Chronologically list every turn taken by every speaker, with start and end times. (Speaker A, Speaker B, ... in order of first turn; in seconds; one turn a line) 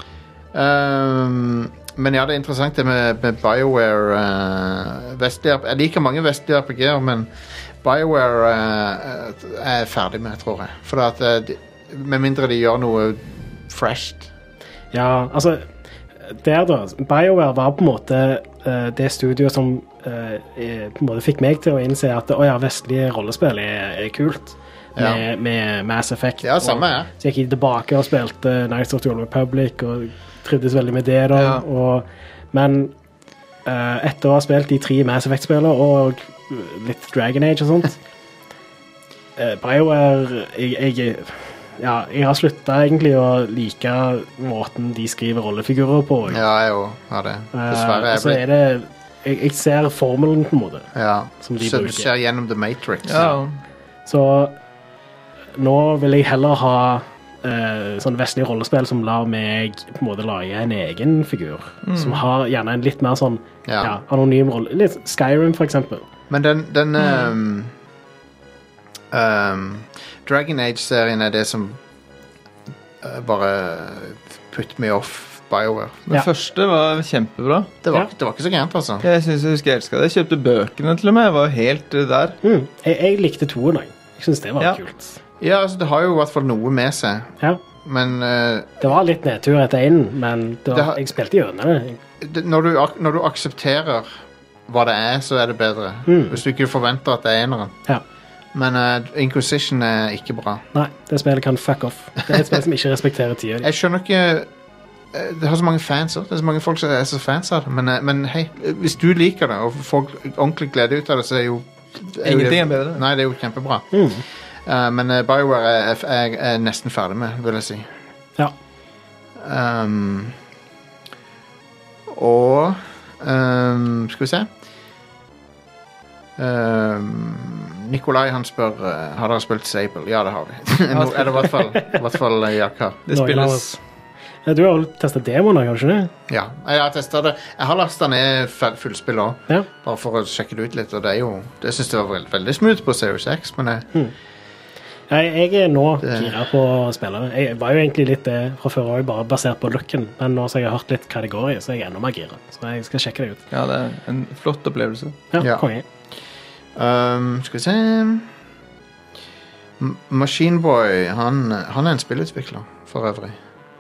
Speaker A: 0.5-14.3
Speaker B: 14.9-15.7
Speaker B: 16.2-32.9
Speaker A: 25.0-25.2
Speaker A: 26.4-27.1
Speaker C: 31.3-31.6
Speaker B: 33.7-38.0
Speaker B: 39.4-46.4
Speaker A: 46.3-48.4
Speaker B: 47.5-50.9
Speaker A: 50.9-53.4
Speaker B: 51.4-52.1
Speaker C: 53.0-53.6
Speaker B: 54.1-54.6
Speaker B: 55.5-66.0
Speaker C: 61.9-62.2
Speaker A: 63.7-64.0
Speaker A: 66.3-67.7
Speaker A: 69.1-71.8
Speaker A: 73.0-76.2
Speaker C: 76.1-77.7
Speaker A: 77.8-79.1
Speaker C: 79.0-82.4
Speaker B: 82.4-85.2
Speaker A: 85.4-88.9
Speaker B: 88.8-92.0
Speaker A: 90.7-91.0
Speaker A: 92.2-94.2
Speaker A: 94.7-97.8
Speaker B: 96.1-96.4
Speaker A: 98.5-100.6
Speaker B: 100.7-103.7
Speaker A: 103.6-104.5
Speaker A: 105.1-113.9
Speaker C: 112.2-113.0
Speaker B: 113.9-114.2
Speaker A: 114.7-117.9
Speaker A: 119.4-120.4
Speaker A: 122.1-124.5
Speaker A: 126.4-133.0
Speaker C: 130.9-131.7
Speaker C: 133.1-133.8
Speaker B: 133.1-133.8
Speaker B: 134.5-136.1
Speaker A: 136.3-143.9
Speaker B: 145.1-153.4
Speaker A: 146.0-146.4
Speaker C: 153.5-155.2
Speaker B: 155.3-155.8
Speaker A: 156.8-158.3
Speaker A: 159.8-163.4